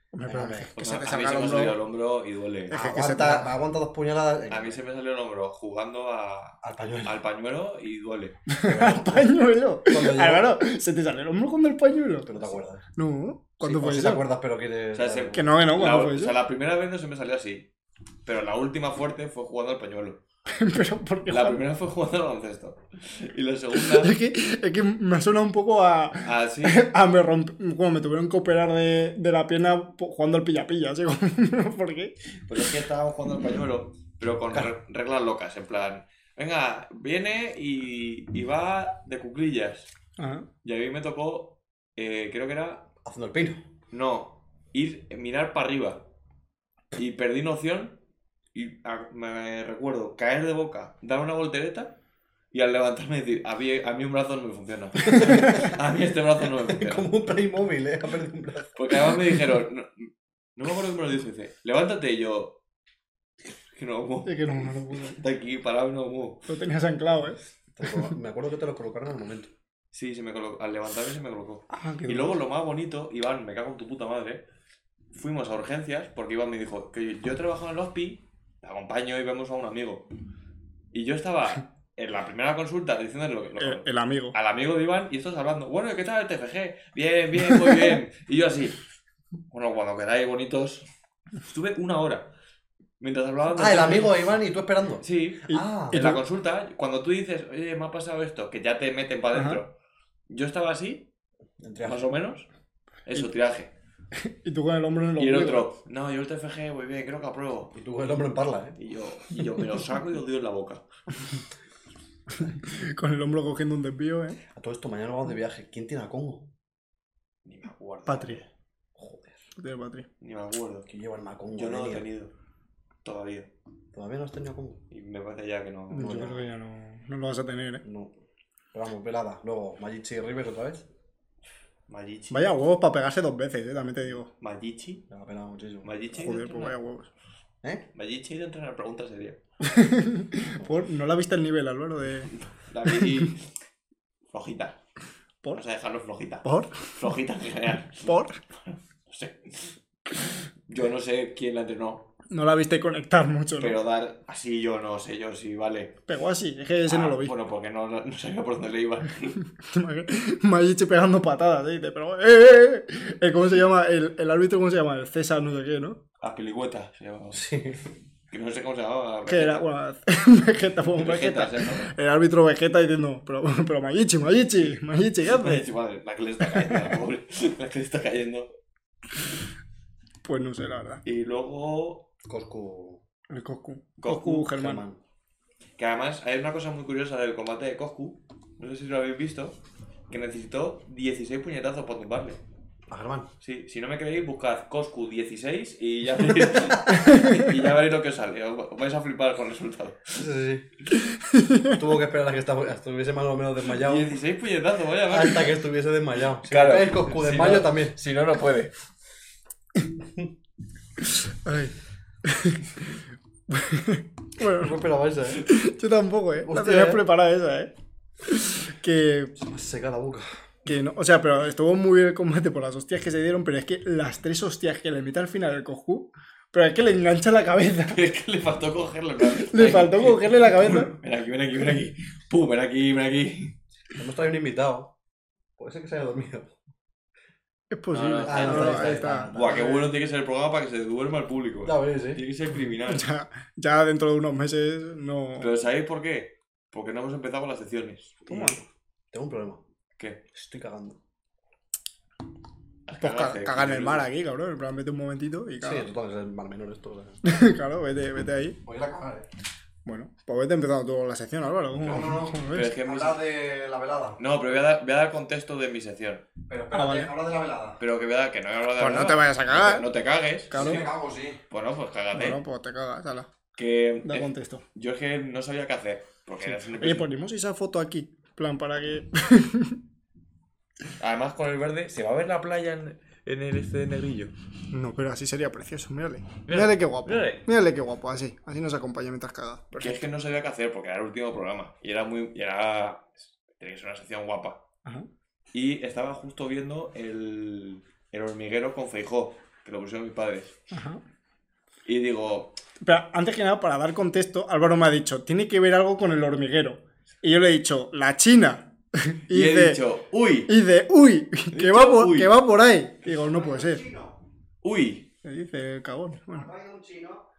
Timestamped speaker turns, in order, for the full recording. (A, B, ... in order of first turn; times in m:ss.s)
0:00.1-0:01.8 A
0:00.3-0:00.7 B
0:00.8-0:02.8 C
0:02.7-0:03.5 A
0:02.7-0:04.8 B
0:04.5-0:08.4 C
0:06.6-0:07.2 B
0:08.5-0:12.3 A
0:08.6-0:09.3 B
0:09.8-0:10.6 B
0:12.2-0:12.8 B
0:13.0-0:14.2 A
0:13.6-0:15.5 B
0:14.9-0:17.7 C
0:15.3-0:16.4 A
0:18.2-0:20.2 C
0:20.5-0:21.6 A
0:21.3-0:24.2 C
0:23.8-0:32.1 A
0:26.2-0:26.9 C
0:32.5-0:39.9 C
0:40.2-0:40.5 A
0:40.6-0:42.9 C
0:43.0-0:43.6 B
0:43.9-0:46.0 C
0:46.9-0:48.0 C
0:48.5-0:52.0 C
0:52.5-0:57.1 C
0:55.1-0:55.7 B
0:56.5-0:59.2 B
0:58.8-1:02.6 C
1:03.7-1:06.5 C
1:04.2-1:05.2 A
1:06.5-1:07.4 A
1:07.8-1:09.5 B
1:09.9-1:14.4 C
1:11.7-1:12.4 A
1:15.1-1:20.1 C
1:20.9-1:28.8 C
1:23.6-1:24.4 A
1:29.5-1:30.9 C
1:31.4-1:32.3 C
1:33.0-1:34.3 C
1:33.5-1:36.2 B
1:35.0-1:39.7 C
1:35.5-1:36.2 A
1:39.3-1:39.6 A
1:40.3-1:41.1 C
1:41.6-1:42.1 B
1:41.8-1:42.5 C
1:43.1-1:43.7 C
1:44.2-1:45.7 A
1:45.2-1:47.8 C
1:47.7-1:48.8 B
1:48.8-1:50.8 C
1:52.4-1:54.4 A
1:54.6-1:56.5 B
1:57.4-1:58.5 C
1:58.1-1:58.4 A
1:59.0-1:59.4 B
1:59.6-2:00.1 A
2:00.2-2:00.9 C
2:00.9-2:02.1 B
2:01.6-2:02.3 C
2:03.0-2:03.5 C
2:03.9-2:04.8 B
2:04.9-2:06.2 C
2:05.9-2:07.8 A
2:05.9-2:06.4 B
2:07.8-2:08.1 B
2:08.7-2:10.9 B
2:11.9-2:12.5 C
2:12.3-2:14.3 A
2:14.4-2:15.0 C
2:15.1-2:15.9 B
2:15.8-2:16.7 C
2:16.1-2:17.1 A
2:17.9-2:19.4 C
2:19.6-2:22.3 A
2:22.7-2:23.5 C
2:23.0-2:23.3 A
2:24.3-2:24.8 C
2:25.5-2:28.1 C
2:26.4-2:27.0 A
2:28.0-2:28.4 A
2:28.6-2:32.1 C
2:32.3-2:33.8 A
2:33.6-2:36.0 C
2:36.1-2:37.3 A
2:36.9-2:39.4 C
2:39.6-2:46.0 A
2:46.2-2:47.4 C
2:47.3-2:47.8 B
2:48.3-2:49.6 C
2:49.3-2:55.6 A
2:51.0-2:51.9 C
2:55.3-2:58.5 C
2:56.5-2:56.9 A
3:00.2-3:01.0 A
3:01.0-3:02.1 C
3:02.2-3:03.0 B
3:03.3-3:04.8 A
3:04.0-3:04.5 C
3:04.5-3:05.0 B
3:05.8-3:09.6 C
3:10.1-3:12.4 C
3:12.9-3:13.3 B
3:13.4-3:20.2 C
3:16.6-3:16.8 B
3:17.0-3:17.4 A
3:20.2-3:20.7 B
3:21.0-3:21.8 A
3:21.8-3:24.1 B
3:23.7-3:25.6 C
3:25.1-3:28.0 B
3:26.4-3:28.7 C
3:31.2-3:31.7 A
3:32.2-3:32.6 A
3:33.5-3:34.8 A
3:34.4-3:35.4 B
3:35.4-3:37.7 A
3:36.4-3:37.0 B
3:38.2-3:39.4 A
3:39.4-3:40.4 B
3:40.6-3:48.0 A
3:47.9-3:53.6 C
3:49.4-3:51.0 A
3:54.0-3:54.9 B
3:55.6-3:56.5 B
3:57.7-3:59.9 A
3:57.9-4:03.0 C
3:58.2-3:59.7 B
4:01.6-4:02.2 B
4:02.8-4:05.5 A
4:05.4-4:08.2 C
4:08.3-4:09.6 B
4:08.3-4:08.6 A
4:10.3-4:11.0 B
4:12.9-4:14.1 C
4:13.0-4:15.9 A
4:15.6-4:17.2 B
4:17.2-4:18.6 A
4:18.6-4:19.3 B
4:19.9-4:22.7 A
4:21.8-4:24.2 B
4:22.5-4:23.2 C
4:24.2-4:26.2 C
4:26.5-4:27.8 B
4:26.7-4:27.1 A
4:27.8-4:30.8 C
4:28.8-4:29.9 A
4:30.5-4:30.8 A
4:30.5-4:31.4 B
4:31.5-4:32.4 C
4:32.1-4:33.3 A
4:33.6-4:37.1 C
4:34.0-4:34.6 A
4:36.5-4:39.8 A
4:41.0-4:44.3 C
4:44.7-4:50.0 A
4:46.5-4:47.4 C
4:49.8-4:54.6 C
4:55.5-5:00.6 C
5:00.7-5:01.0 A
5:01.8-5:02.6 C
5:02.8-5:09.8 A
5:09.3-5:10.5 C
5:10.5-5:13.9 A
5:11.5-5:12.4 C
5:13.2-5:14.2 B
5:14.6-5:15.1 C
5:15.2-5:16.5 A
5:16.3-5:17.2 B